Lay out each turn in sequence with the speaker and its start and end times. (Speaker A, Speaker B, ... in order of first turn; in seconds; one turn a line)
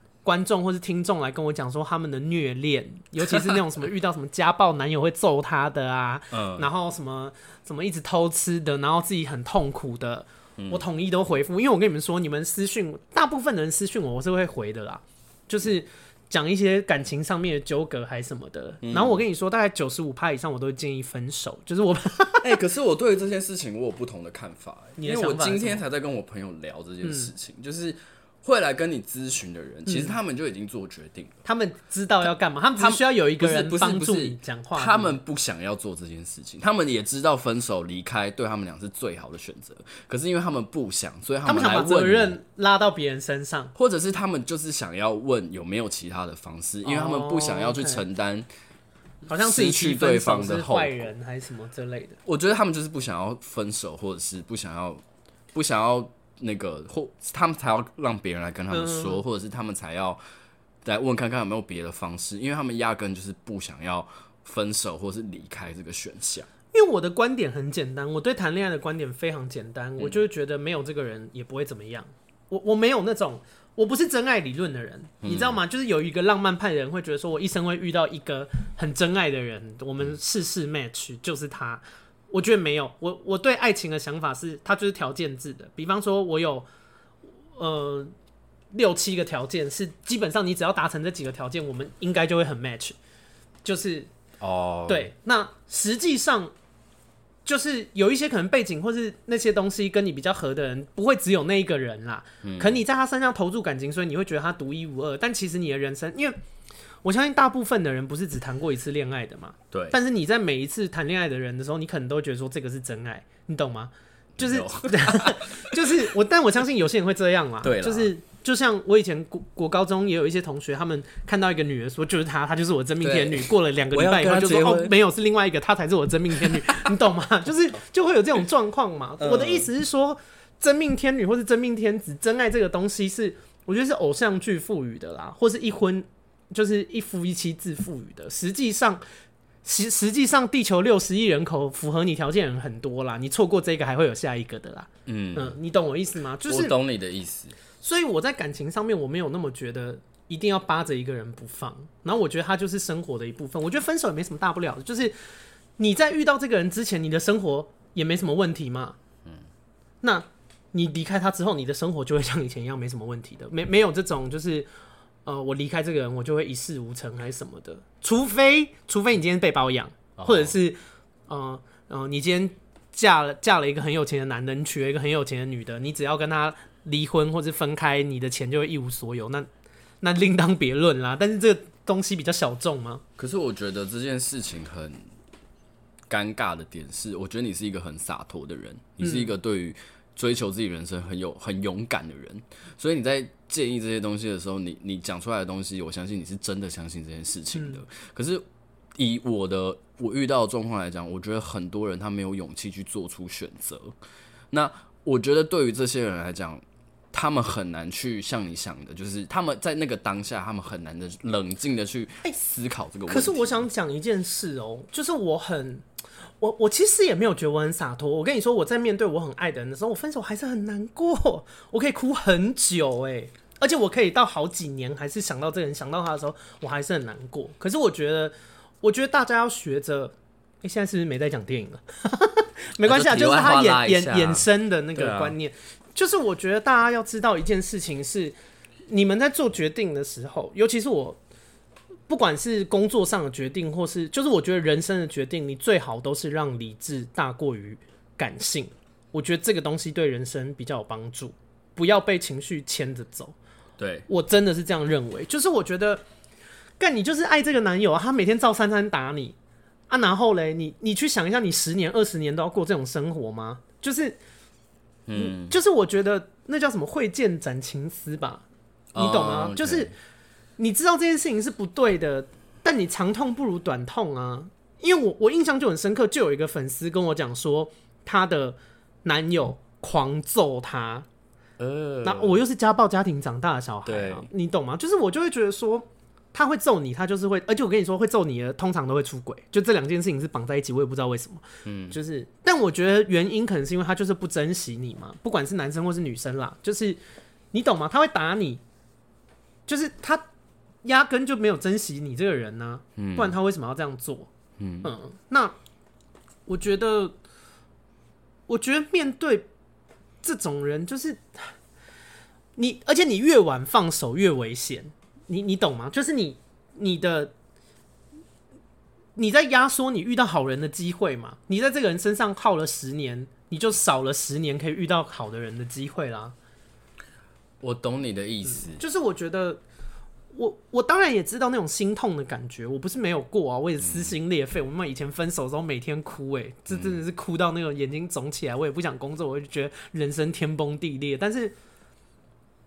Speaker A: 0.2-22.6
Speaker B: 3.2-3.6
Speaker B: 6.3-6.7
Speaker B: 18.8-19.2
Speaker B: 22.4-31.4
Speaker A: 25.0-25.8
Speaker A: 27.0-27.3
Speaker A: 29.9-30.1
Speaker A: 31.4-35.2
Speaker B: 32.8-42.4
Speaker A: 41.4-43.7
Speaker B: 43.7-48.5
Speaker A: 46.8-48.0
Speaker A: 49.3-52.2
Speaker B: 49.4-51.0
Speaker B: 52.2-55.0
Speaker B: 55.5-60.2
Speaker A: 58.7-59.2
Speaker B: 60.8-66.5
Speaker A: 66.7-86.7
Speaker B: 75.2-75.6
Speaker A: 87.6-88.1
Speaker A: 88.7-93.0
Speaker A: 93.6-94.1
Speaker B: 94.4-95.1
Speaker A: 94.9-96.5
Speaker A: 97.5-106.3
Speaker B: 102.4-102.8
Speaker A: 107.0-139.0
Speaker B: 109.7-110.0
Speaker B: 114.4-116.0
Speaker B: 117.6-118.1
Speaker B: 123.0-124.9
Speaker B: 126.4-126.8
Speaker B: 129.2-129.7
Speaker A: 139.6-146.7
Speaker B: 145.1-145.6
Speaker B: 146.4-147.6
Speaker A: 147.8-155.1
Speaker A: 155.8-158.9
Speaker A: 160.0-164.7
Speaker A: 165.2-179.5
Speaker B: 170.2-170.5
Speaker A: 180.0-183.0
Speaker B: 183.2-185.0
Speaker B: 186.1-198.4
Speaker A: 189.0-189.3
Speaker B: 198.9-203.9
Speaker B: 204.5-206.6
Speaker B: 207.1-213.6
Speaker A: 213.1-215.8
Speaker A: 216.4-238.3
Speaker B: 232.8-235.3
Speaker A: 238.9-241.2
Speaker A: 242.1-253.3
Speaker B: 253.8-254.1
Speaker A: 254.1-256.0
Speaker A: 256.8-259.4
Speaker A: 259.9-264.2
Speaker B: 265.1-265.5
Speaker A: 265.1-268.4
Speaker B: 268.9-269.9
Speaker A: 268.9-269.9
Speaker A: 270.6-281.1
Speaker B: 281.6-282.4
Speaker A: 282.0-297.0
Speaker B: 283.9-284.3
Speaker B: 291.6-292.0
Speaker A: 297.5-298.6
Speaker A: 299.7-300.2
Speaker A: 300.8-304.3
Speaker B: 303.0-303.3
Speaker B: 304.6-304.9
Speaker A: 304.8-305.5
Speaker A: 306.5-307.1
Speaker A: 308.5-309.5
Speaker A: 310.2-311.5
Speaker A: 312.6-317.3
Speaker A: 319.1-326.3
Speaker B: 327.6-328.8
Speaker A: 328.6-329.6
Speaker A: 330.3-341.5
Speaker B: 333.8-334.1
Speaker B: 336.7-336.9